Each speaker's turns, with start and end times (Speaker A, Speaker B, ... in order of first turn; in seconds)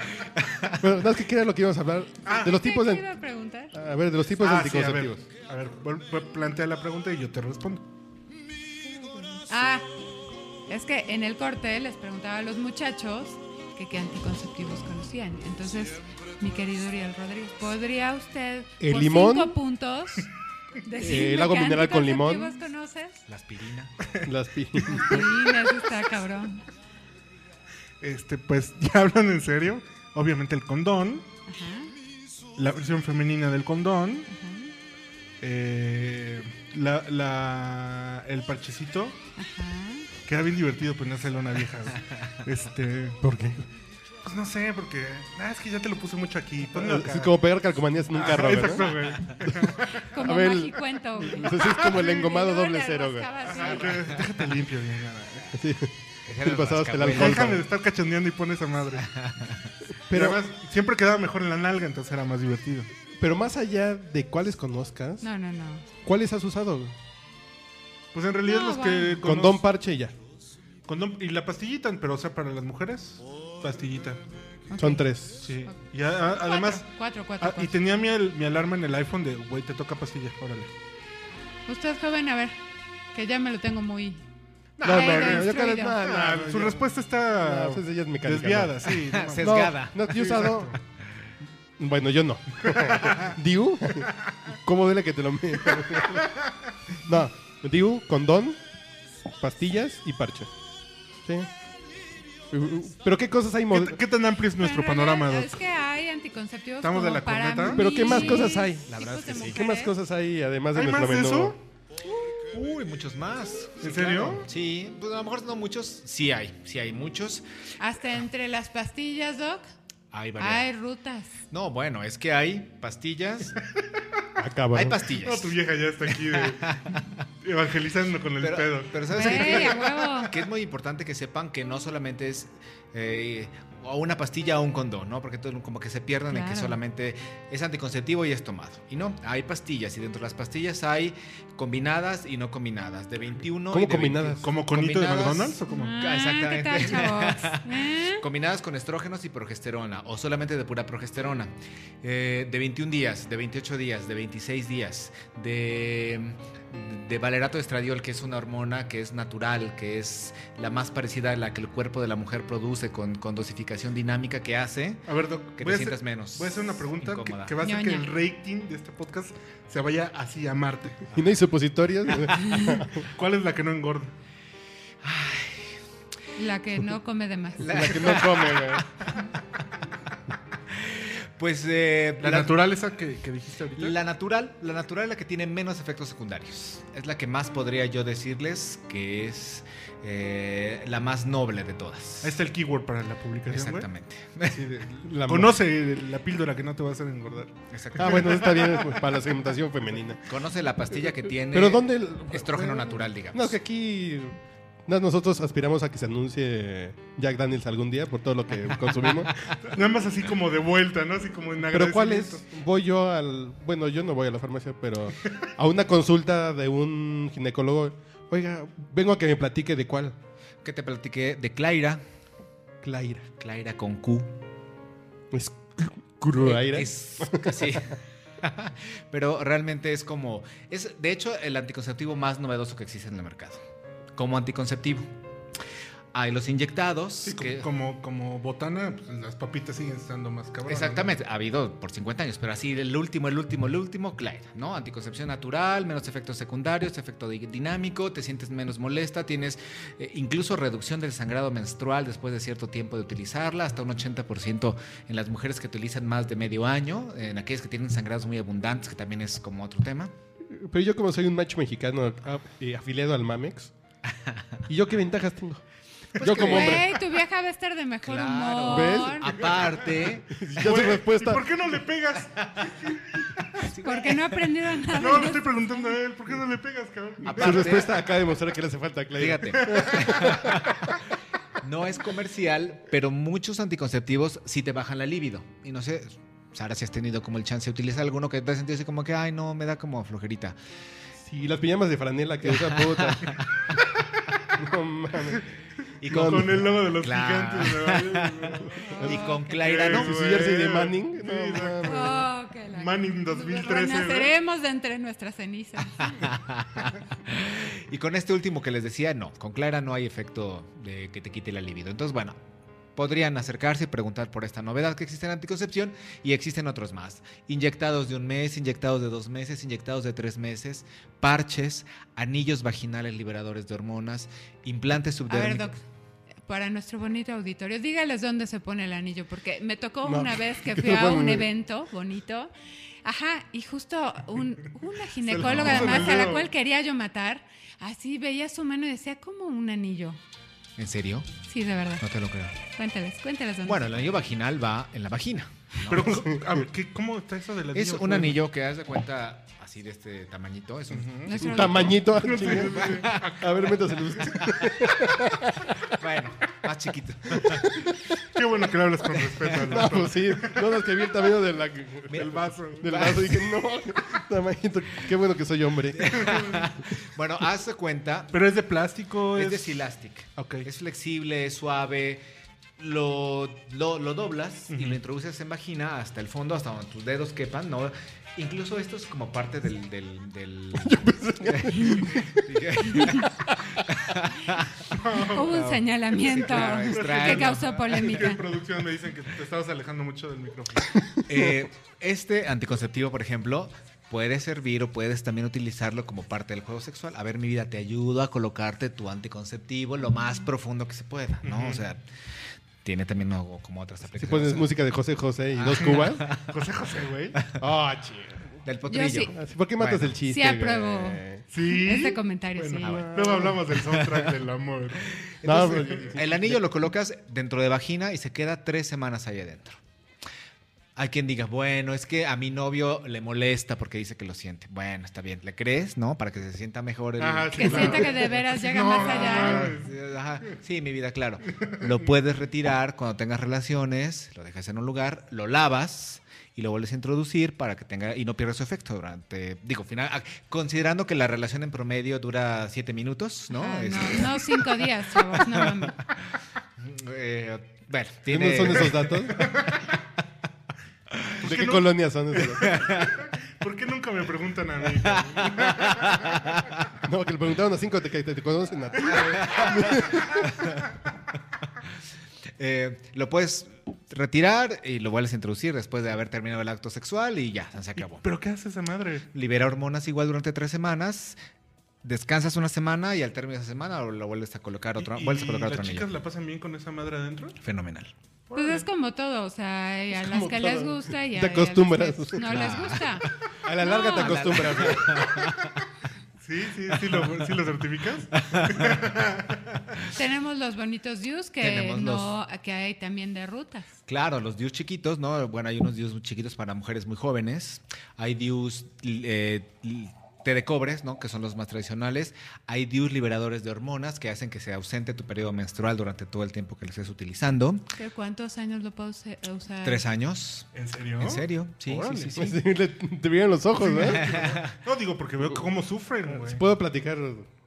Speaker A: 0.3-0.8, 23.3-24.0, 53.6-54.2, 56.3-57.6, 59.0-59.7, 88.9-90.4, 108.9-109.6, 112.5-117.5, 120.1-120.7, 121.5-123.6, 124.7-127.2, 128.4-167.6, 175.0-175.8, 177.6-178.9, 180.7-182.6, 183.8-192.4, 193.5-194.8, 197.7-198.8, 200.3-203.6, 220.6-222.0, 223.4-224.3, 226.4-233.6, 234.2-235.1, 236.1-237.7, 240.7-260.1, 266.1-267.0, 268.0-270.9, 272.4-272.7, 273.6-274.5, 277.2-278.0, 279.2-280.9, 281.6-290.6, 292.5-293.5, 296.0-300.2, 306.0-312.4, 313.0-325.8, 335.4-336.3, 340.8-341.4, 342.0-342.6, 343.6-346.2, 347.7-353.5, 354.4-355.2, 355.8-357.7, 359.5-359.8, 362.1-363.5, 365.9-368.3, 369.4-372.2, 372.8-384.8, 386.1-388.3, 391.3-402.1, 402.8-404.7, 405.5-406.5, 408.6-410.2, 415.5-419.8, 421.0-428.1, 429.0-445.9, 446.8-449.3, 452.7-453.1, 455.0-456.8, 459.1-460.6, 462.6-468.3, 469.3-471.4, 472.0-476.1, 477.6-478.1, 482.4-485.8, 487.1-487.4, 488.5-489.0, 491.6-492.3, 494.1-507.9, 509.8-512.6, 514.0-514.7
Speaker B: 0.8-3.1, 3.7-5.2, 18.8-19.6, 21.0-22.6, 24.2-25.3, 43.2-43.7, 46.7-53.3, 55.5-57.6, 60.1-60.4, 63.2-65.3, 66.0-66.9, 69.2-70.2, 74.8-75.6, 84.8-90.8, 91.8-96.3, 97.0-98.6, 99.4-100.5, 101.2-101.5, 102.5-104.0, 107.7-111.6, 124.4-125.0, 143.7-144.5, 171.1-173.0, 177.6-178.9, 195.1-195.6, 198.0-200.4, 201.5-209.3, 211.7-220.2, 222.8-223.3, 225.3-227.8, 260.5-263.7, 264.7-265.6, 266.2-266.9, 268.7-269.3, 270.3-271.4, 277.3-280.7, 291.2-293.4, 294.6-295.5, 296.1-296.7, 299.0-302.3, 330.0-331.5, 346.1-346.4, 351.4-355.7, 357.4-358.0, 359.7-362.3, 362.8-366.2, 380.8-383.8, 404.1-406.2, 407.6-408.6, 409.3-411.4, 412.8-413.6, 415.4-416.6, 448.3-449.5, 451.4-452.9, 457.0-460.8, 480.1-482.9, 483.6-485.4, 512.4-514.3, 516.3-517.5
Speaker C: 2.3-2.6, 4.4-7.8, 24.8-25.1, 28.0-31.3, 32.6-34.3, 35.4-39.2, 40.2-43.2, 44.2-47.4, 48.1-50.1, 53.5-55.6, 57.0-59.1, 60.1-62.9, 68.1-69.6, 70.9-74.2, 75.4-76.9, 77.4-80.7, 84.8-90.8, 92.6-93.3, 95.7-96.3, 103.7-105.6, 106.8-108.3, 110.7-111.6, 113.8-114.5, 125.2-130.1, 144.4-145.9, 165.1-171.1, 172.9-174.1, 182.2-184.0, 192.2-193.9, 194.5-199.0, 209.6-212.4, 237.3-241.1, 270.6-273.3, 274.9-277.9, 296.1-298.8, 299.6-304.3, 335.3-336.5, 345.9-348.4, 350.9-351.4, 352.1-353.8, 358.2-360.7, 362.1-363.2, 366.1-366.7, 368.3-369.8, 370.4-370.7, 374.7-375.0, 384.9-391.1, 401.4-401.8, 405.8-407.4, 411.5-416.1, 427.2-429.9, 448.9-449.8, 451.4-456.4, 459.0-459.7, 468.0-469.3, 475.0-477.6, 478.5-478.9, 486.4-489.6, 510.7-512.4, 513.8-516.6
Speaker D: 2.5-3.7, 9.3-9.9, 10.7-20.3, 20.8-23.2, 24.9-26.7, 31.5-31.9, 34.3-34.7, 39.4-40.1, 50.1-54.1, 65.2-65.9, 68.5-69.2, 74.7-75.0, 76.3-77.8, 81.7-82.6, 83.1-84.2, 84.8-86.0, 104.6-109.9, 117.8-119.7, 120.4-121.4, 129.1-130.3, 136.3-136.8, 145.7-148.2, 167.6-168.1, 176.4-178.0, 266.4-269.4, 273.8-275.9, 298.8-299.6, 301.8-306.3, 325.3-325.8, 326.5-332.5, 333.0-340.2, 341.5-342.0, 342.7-343.9, 351.3-351.8, 383.0-383.2, 385.3-388.5, 408.9-409.3, 410.2-413.1, 427.5-429.7, 443.5-446.0, 478.6-483.2, 483.8-484.8, 490.1-493.9, 508.0-510.0